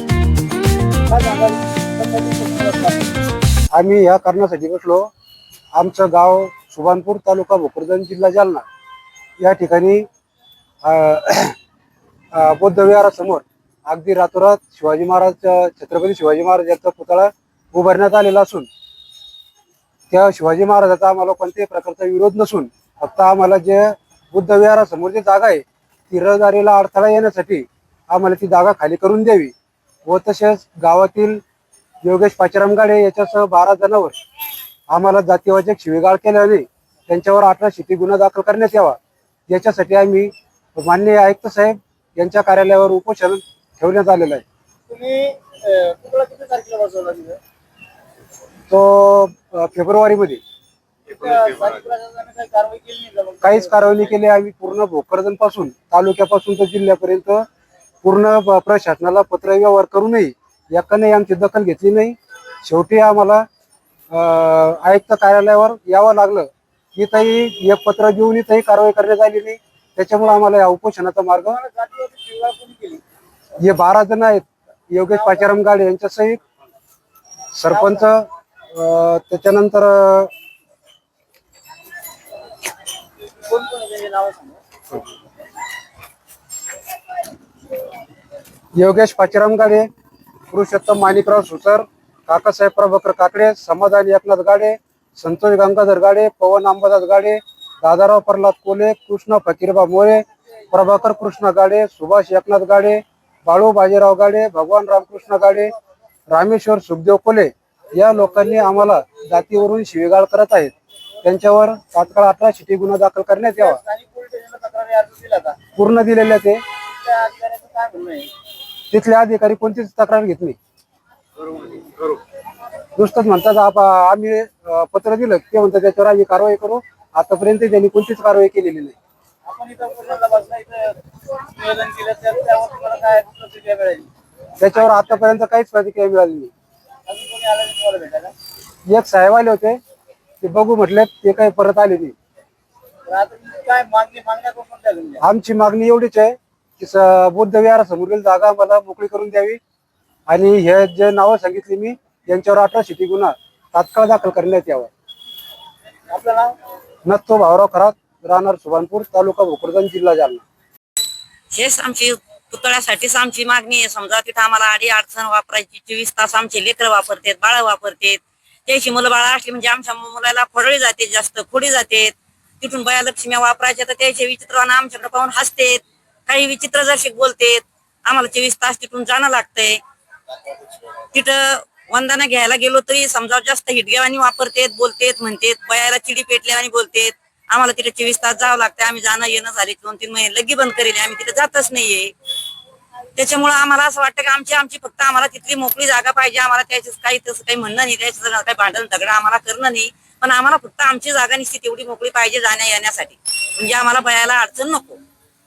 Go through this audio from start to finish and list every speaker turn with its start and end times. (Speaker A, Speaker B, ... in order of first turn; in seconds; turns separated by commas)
Speaker A: 1.1-3.1, Speaker B: 3.7-5.1, Speaker B: 5.8-8.7, Speaker B: 9.4-10.0, Speaker B: 10.8-11.6, Speaker B: 12.3-18.7, Speaker B: 20.1-29.5, Speaker B: 30.1-31.4, Speaker B: 32.0-34.1, Speaker B: 34.9-39.0, Speaker B: 39.5-44.4, Speaker A: 44.9-47.4, Speaker B: 48.7-50.4, Speaker A: 51.1-54.1, Speaker B: 53.4-57.5, Speaker B: 58.0-63.5, Speaker B: 64.1-71.6, Speaker A: 71.5-73.0, Speaker B: 73.6-76.4, Speaker A: 75.1-75.5, Speaker B: 77.5-80.3, Speaker A: 77.7-78.0, Speaker A: 83.5-84.6, Speaker B: 88.8-89.9, Speaker B: 90.5-105.7, Speaker B: 106.3-110.7, Speaker B: 111.2-113.8, Speaker A: 113.6-115.6, Speaker B: 115.8-116.6, Speaker A: 117.0-118.3, Speaker B: 118.9-120.6, Speaker A: 121.6-121.9, Speaker B: 123.0-128.9, Speaker A: 129.4-131.0, Speaker A: 131.5-134.1, Speaker B: 134.6-136.5, Speaker A: 137.1-138.3, Speaker B: 138.9-139.8, Speaker B: 140.4-142.2, Speaker A: 143.1-145.2, Speaker B: 145.2-149.6, Speaker B: 150.3-154.9, Speaker A: 156.1-156.5, Speaker B: 157.1-160.4, Speaker C: 161.5-179.8, Speaker C: 181.1-192.1, Speaker C: 193.2-205.0